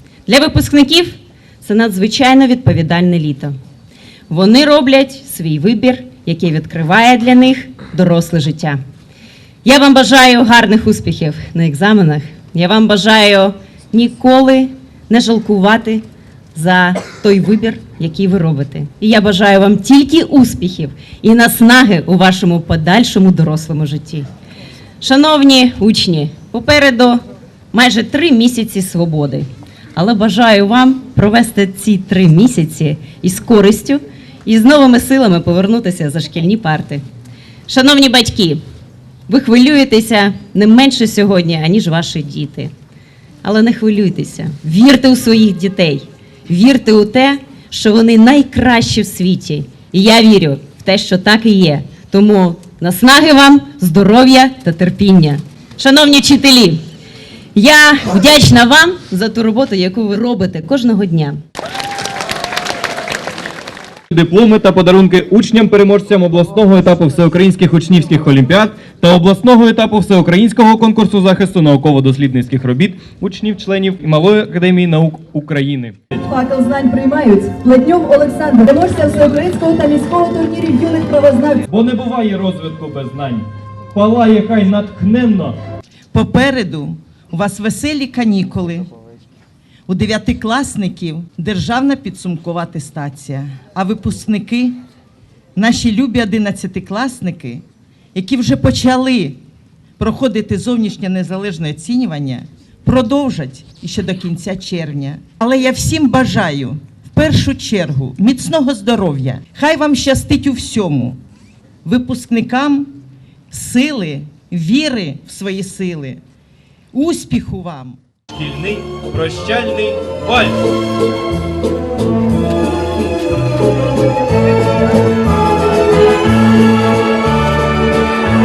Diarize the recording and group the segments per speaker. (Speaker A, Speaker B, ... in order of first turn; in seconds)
Speaker A: 0.3-3.5, 4.3-8.8, 9.6-24.3, 25.0-37.0, 37.7-38.6, 39.3-42.7, 43.4-56.8, 57.5-61.4
Speaker B: 64.1-76.2, 81.7-85.5, 118.3-120.6
Speaker C: 76.3-81.6
Speaker D: 86.1-88.9, 89.9-94.8, 95.6-99.4, 100.0-111.2, 111.8-113.0, 113.5-116.2, 116.9-118.0